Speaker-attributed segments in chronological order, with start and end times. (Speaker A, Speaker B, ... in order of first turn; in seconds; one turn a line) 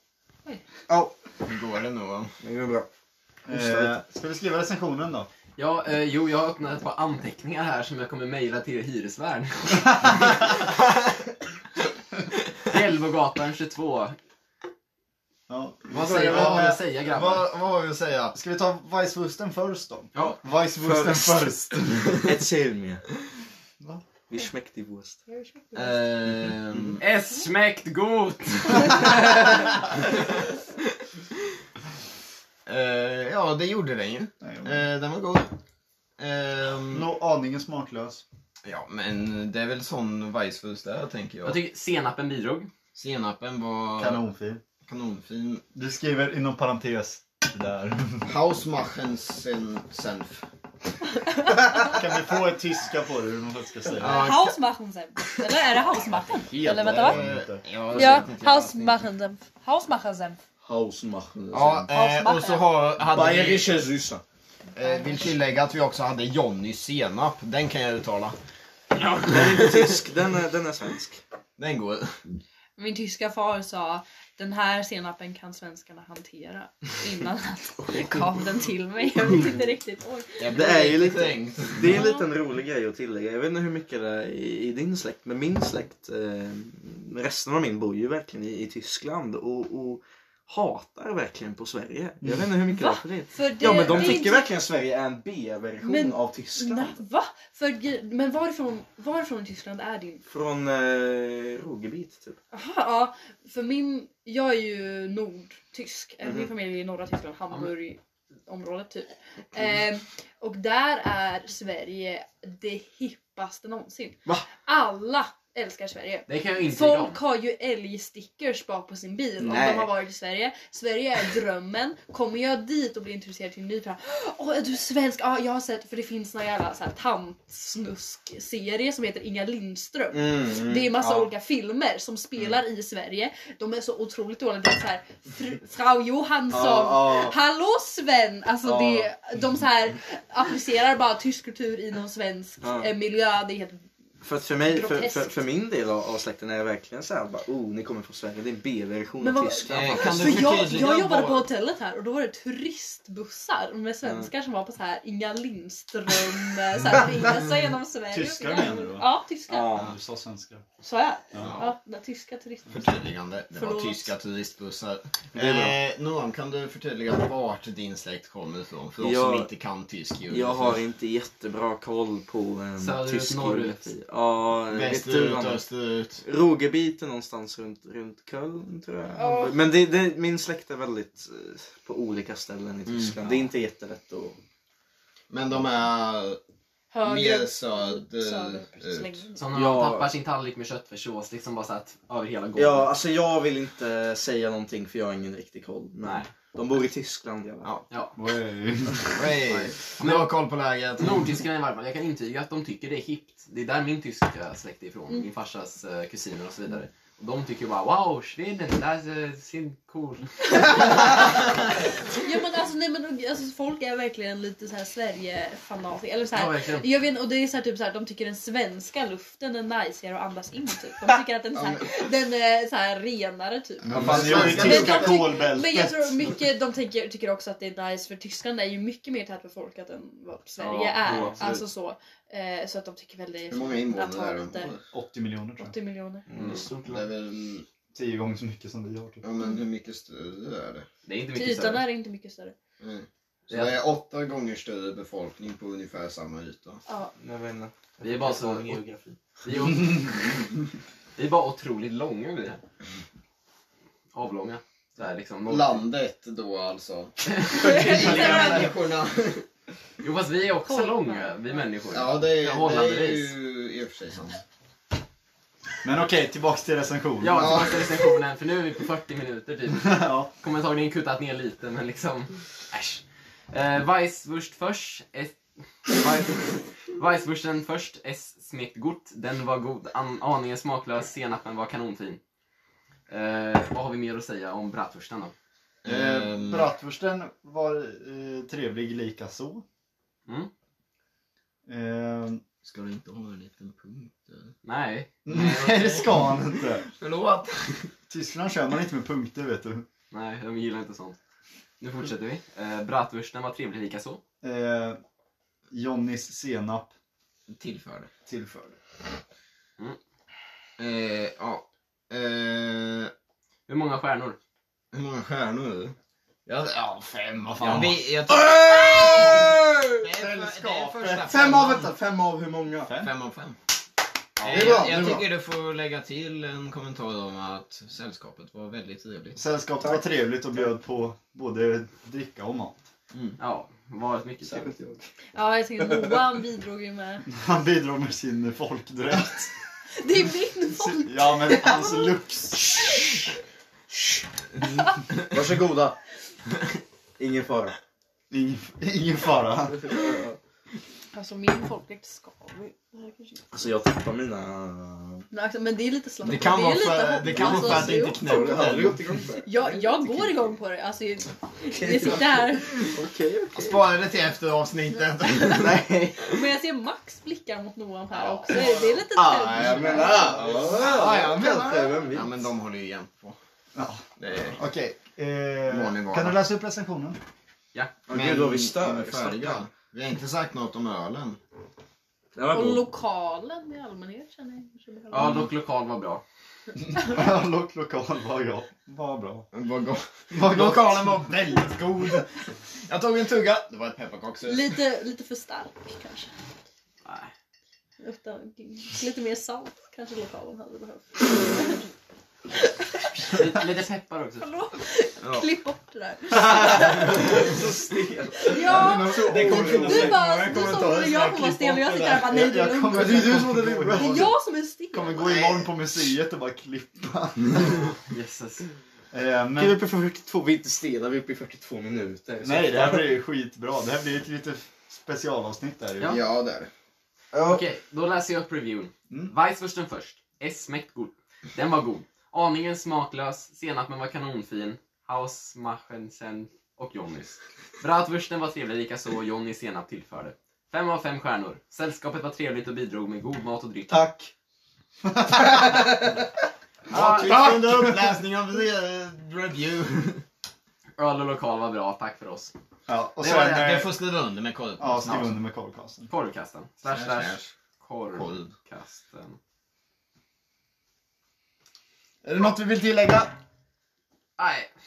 Speaker A: 1.4-2.4
Speaker B: 2.4-2.9
Speaker B: 3.5-4.0
Speaker C: 3.5-5.3
Speaker D: 5.6-10.5
Speaker D: 12.7-14.2
Speaker C: 15.5-16.8
Speaker D: 15.9-17.5
Speaker A: 15.9-18.4
Speaker C: 18.3-22.1
Speaker D: 20.1-20.4
Speaker B: 20.8-21.3
Speaker B: 22.2-23.0
Speaker B: 24.3-25.2
Speaker E: 25.3-26.0
Speaker A: 25.8-27.0
Speaker D: 27.0-30.1
Speaker A: 32.7-35.5
Speaker C: 34.4-34.8
Speaker A: 36.2-37.1
Speaker C: 36.9-38.2
Speaker A: 38.6-41.6
Speaker D: 41.4-42.7
Speaker A: 43.0-44.2
Speaker C: 44.0-44.6
Speaker A: 44.9-45.6
Speaker C: 45.8-48.3
Speaker A: 48.2-50.5
Speaker E: 51.2-52.0
Speaker C: 51.8-54.4
Speaker A: 54.0-54.6
Speaker E: 54.0-57.2
Speaker C: 56.5-57.6
Speaker B: 56.5-56.9
Speaker A: 56.9-59.0
Speaker E: 57.9-60.4
Speaker B: 60.6-61.9
Speaker A: 61.5-63.8
Speaker E: 61.9-62.7
Speaker B: 63.0-64.2
Speaker A: 64.7-68.4
Speaker E: 64.8-65.3
Speaker D: 69.0-70.0
Speaker B: 69.2-71.2
Speaker A: 71.6-72.2
Speaker E: 72.8-80.7
Speaker B: 77.8-78.3
Speaker A: 80.4-82.1
Speaker B: 80.5-97.0
Speaker E: 81.8-82.3
Speaker C: 92.2-92.5
Speaker E: 92.7-94.5
Speaker E: 95.8-100.2
Speaker B: 100.3-102.4
Speaker E: 102.5-143.8
Speaker B: 106.2-106.5
Speaker D: 116.3-117.2
Speaker B: 119.4-119.9
Speaker B: 130.1-131.3
Speaker B: 136.5-137.3
Speaker B: 138.6-139.1
Speaker B: 142.6-142.9
Speaker B: 144.2-150.8
Speaker E: 144.6-145.4
Speaker E: 149.2-159.9
Speaker A: 149.7-151.5
Speaker B: 154.0-154.3
Speaker C: 158.1-159.1
Speaker B: 159.5-159.9
Speaker C: 159.7-160.6
Speaker E: 160.8-164.1
Speaker C: 161.3-161.6
Speaker A: 161.4-161.7
Speaker A: 162.7-170.8
Speaker B: 165.3-165.8
Speaker B: 169.0-169.5
Speaker B: 170.3-175.6
Speaker D: 172.8-173.9
Speaker A: 174.7-176.2
Speaker B: 176.2-184.4
Speaker E: 179.2-179.6
Speaker D: 182.9-183.5
Speaker A: 185.3-186.4
Speaker E: 186.9-189.4
Speaker A: 187.0-189.2
Speaker D: 189.4-192.9
Speaker B: 189.5-190.1
Speaker B: 192.6-197.7
Speaker D: 196.0-196.3
Speaker D: 197.9-198.2
Speaker C: 198.2-199.3
Speaker A: 199.2-201.3
Speaker D: 199.5-200.3
Speaker D: 201.0-211.3
Speaker E: 210.6-211.2
Speaker E: 212.1-234.7
Speaker D: 216.3-216.9
Speaker A: 221.6-222.1
Speaker A: 223.8-225.2
Speaker B: 223.9-224.9
Speaker C: 223.9-226.3
Speaker B: 230.6-231.6
Speaker D: 231.0-231.6
Speaker A: 233.5-234.8
Speaker C: 234.9-235.7
Speaker E: 235.6-236.3
Speaker B: 236.3-237.1
Speaker D: 236.4-236.7
Speaker A: 236.8-237.7
Speaker C: 237.9-239.2
Speaker A: 239.2-240.9
Speaker D: 241.1-241.9
Speaker E: 241.3-242.6
Speaker A: 242.8-246.8
Speaker D: 243.5-243.8
Speaker E: 246.9-247.1
Speaker B: 247.2-249.2
Speaker D: 248.0-248.8
Speaker D: 249.4-250.5
Speaker D: 251.2-252.6
Speaker D: 254.1-255.8
Speaker A: 255.5-259.5
Speaker D: 257.3-257.8
Speaker E: 257.5-258.7
Speaker B: 257.6-258.2
Speaker C: 257.9-258.7
Speaker D: 260.0-263.4
Speaker E: 260.7-261.6
Speaker A: 261.9-264.4
Speaker C: 265.8-267.7
Speaker D: 267.2-282.2
Speaker A: 267.4-268.1
Speaker C: 269.8-270.3
Speaker D: 283.1-285.3
Speaker A: 285.8-286.7
Speaker C: 285.9-289.6
Speaker C: 291.7-292.4
Speaker A: 292.6-294.5
Speaker D: 294.6-296.2
Speaker C: 295.3-296.9
Speaker A: 296.9-297.9
Speaker C: 298.1-299.9
Speaker D: 300.1-301.2
Speaker D: 301.8-304.2
Speaker C: 304.4-305.0
Speaker C: 305.7-306.9
Speaker A: 307.5-308.1
Speaker C: 308.3-308.8
Speaker A: 310.8-313.1
Speaker D: 313.7-314.4
Speaker A: 314.9-315.9
Speaker A: 316.5-321.9
Speaker C: 317.5-318.0
Speaker D: 317.6-317.9
Speaker B: 318.3-320.0
Speaker C: 320.1-321.4
Speaker B: 321.3-323.0
Speaker C: 322.9-323.1
Speaker A: 323.0-323.6
Speaker D: 324.4-324.9
Speaker A: 324.4-329.4
Speaker C: 324.5-325.3
Speaker C: 329.4-332.8
Speaker D: 333.4-334.7
Speaker B: 334.4-335.1
Speaker E: 335.4-337.3
Speaker B: 335.8-336.2
Speaker C: 337.3-339.5
Speaker E: 339.9-343.2
Speaker C: 340.9-342.8
Speaker B: 345.2-346.0
Speaker B: 347.2-347.8
Speaker C: 348.3-350.1
Speaker B: 349.8-350.4
Speaker E: 351.1-353.5
Speaker B: 353.5-355.3
Speaker E: 355.3-358.6
Speaker A: 356.2-359.0
Speaker B: 357.3-360.5
Speaker C: 358.5-358.9
Speaker E: 359.4-362.8
Speaker B: 361.7-363.9
Speaker A: 363.5-365.8
Speaker E: 365.2-370.4
Speaker B: 365.5-366.4
Speaker A: 368.4-368.8
Speaker B: 369.1-372.4
Speaker A: 369.4-373.4
Speaker C: 373.8-374.1
Speaker A: 374.2-374.6
Speaker C: 374.6-377.2
Speaker A: 375.7-376.4
Speaker B: 378.1-379.6
Speaker A: 378.1-381.4
Speaker B: 382.4-382.8
Speaker E: 382.5-385.3
Speaker D: 385.1-386.2
Speaker C: 387.0-389.5
Speaker A: 389.5-392.3
Speaker C: 390.3-391.7
Speaker A: 392.9-394.8
Speaker E: 394.5-396.3
Speaker D: 397.0-397.3
Speaker E: 398.0-401.9
Speaker E: 402.6-403.5
Speaker D: 403.2-404.4
Speaker E: 404.4-407.4
Speaker B: 406.6-412.3
Speaker E: 408.4-413.4
Speaker C: 408.7-410.9
Speaker A: 409.4-410.1
Speaker C: 412.1-414.3
Speaker B: 412.9-414.3
Speaker E: 413.9-415.4
Speaker C: 414.9-417.9
Speaker D: 418.1-418.7
Speaker C: 419.1-419.8
Speaker B: 419.6-423.1
Speaker C: 422.4-426.2
Speaker A: 426.0-426.7
Speaker B: 427.3-427.6
Speaker D: 427.4-444.1
Speaker B: 443.9-444.3
Speaker C: 445.0-445.7
Speaker D: 446.9-447.3
Speaker A: 446.9-450.2
Speaker C: 447.2-448.2
Speaker D: 451.0-452.5
Speaker C: 452.9-453.9
Speaker A: 453.2-455.3
Speaker C: 454.8-456.1
Speaker D: 456.1-459.4
Speaker A: 456.9-457.5
Speaker A: 458.1-458.5
Speaker C: 462.2-463.3
Speaker D: 464.4-464.7